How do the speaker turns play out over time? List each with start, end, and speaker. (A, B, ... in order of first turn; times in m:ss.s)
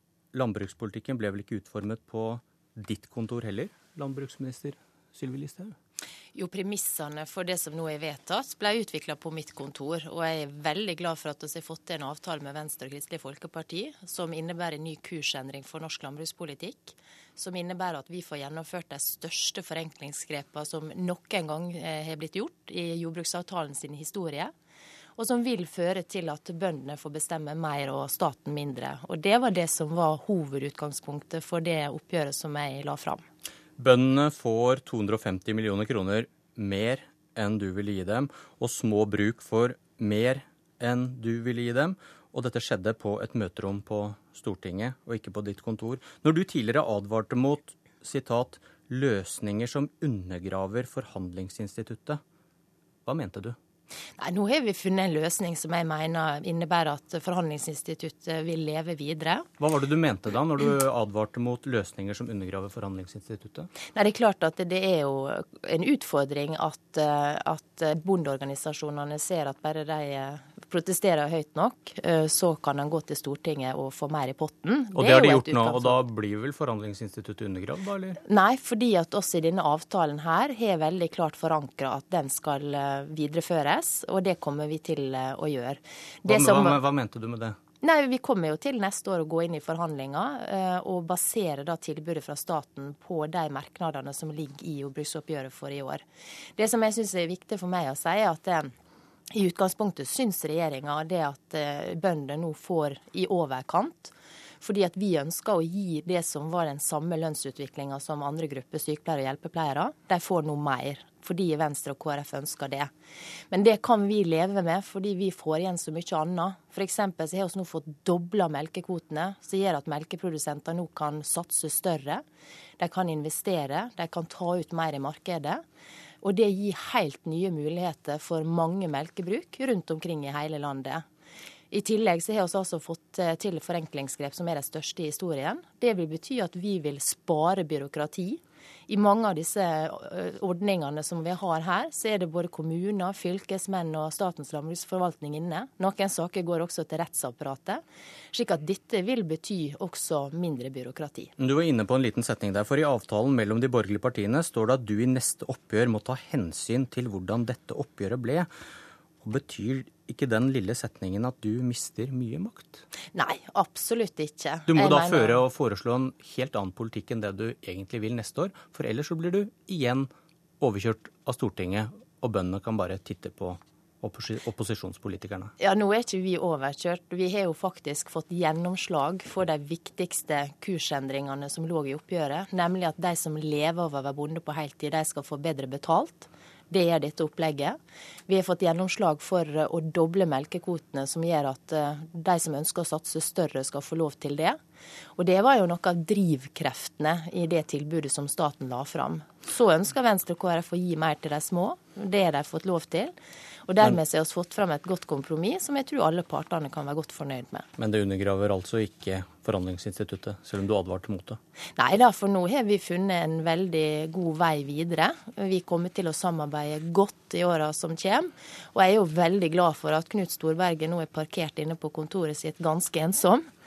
0:00.3-0:05.7 A
0:06.3-0:24.5 B
0:25.2-0:33.2 B
0:33.8-0:52.2 A
0:53.0-0:53.6 A
0:54.2-0:59.5 B
0:59.6-1:03.7 A
1:03.8-1:16.0 B
1:15.0-1:18.2 A
1:18.2-1:26.8 B
1:26.2-1:27.6 A
1:27.8-1:36.0 B
1:36.6-1:38.7 B
1:39.3-1:52.9 B
1:53.5-2:02.2 B
2:02.8-2:05.6 B
2:06.2-2:11.0 B
2:11.7-2:27.8 B
2:28.3-2:31.3 B
2:31.4-2:38.5 A
2:39.2-2:42.8 A
2:43.1-2:45.4 B
2:44.7-2:50.1 A
2:50.6-2:55.5 A
2:55.6-3:14.6 B
3:15.2-3:23.1 B
3:23.7-3:27.7 B
3:27.8-3:31.4 A
3:31.8-3:43.5 B